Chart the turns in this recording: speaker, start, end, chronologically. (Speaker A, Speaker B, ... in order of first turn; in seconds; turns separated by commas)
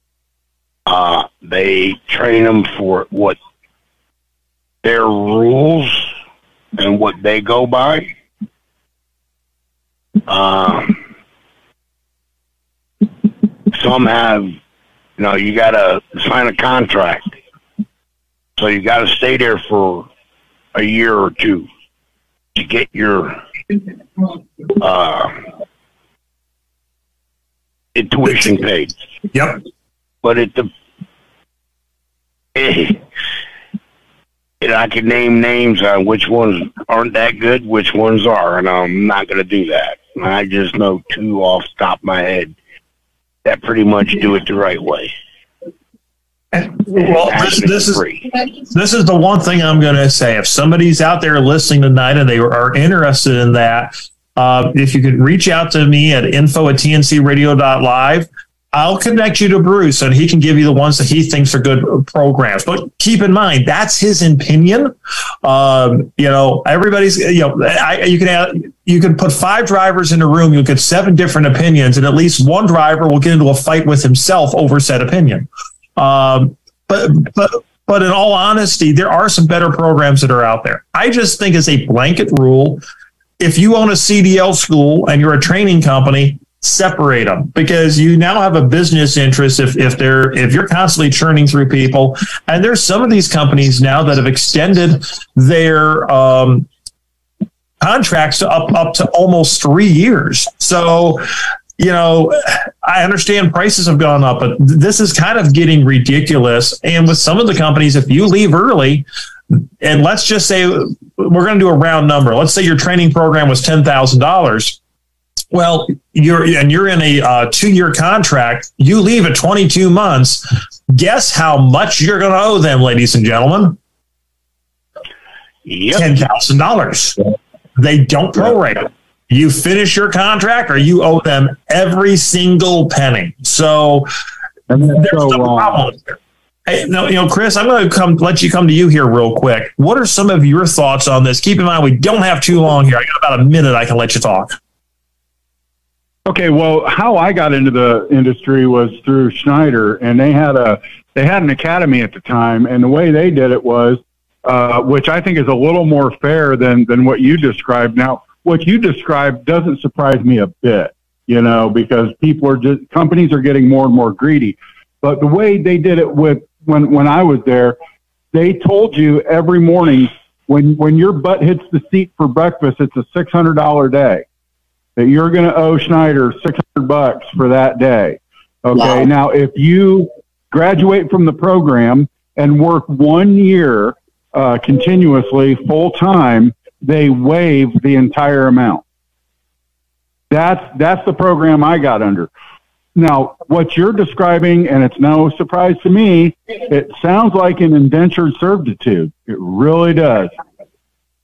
Speaker A: 0.9-3.4, Speaker A: 4.8-6.1, Speaker A: 6.8-8.1, Speaker A: 10.3-11.0, Speaker A: 13.7-14.6, Speaker A: 15.2-17.3, Speaker A: 18.6-20.1, Speaker A: 20.7-21.7, Speaker A: 22.5-23.4, Speaker A: 24.8-25.4, Speaker A: 27.9-28.9, Speaker B: 29.3-29.6, Speaker A: 30.2-30.7, Speaker A: 32.5-33.0, Speaker A: 34.6-42.5, Speaker A: 43.4-45.1, Speaker B: 46.5-48.0, Speaker A: 46.9-48.3, Speaker B: 48.7-64.9, Speaker B: 65.4-82.8, Speaker B: 83.4-96.7, Speaker B: 97.8-101.2, Speaker B: 101.8-114.8, Speaker B: 115.5-123.8, Speaker A: 125.6-126.2, Speaker B: 125.9-127.2, Speaker B: 127.8-134.1, Speaker C: 134.7-135.8, Speaker B: 134.9-144.6, Speaker C: 146.3-167.8, Speaker C: 168.3-174.2, Speaker C: 175.0-188.8, Speaker C: 190.3-192.3, Speaker C: 192.9-200.3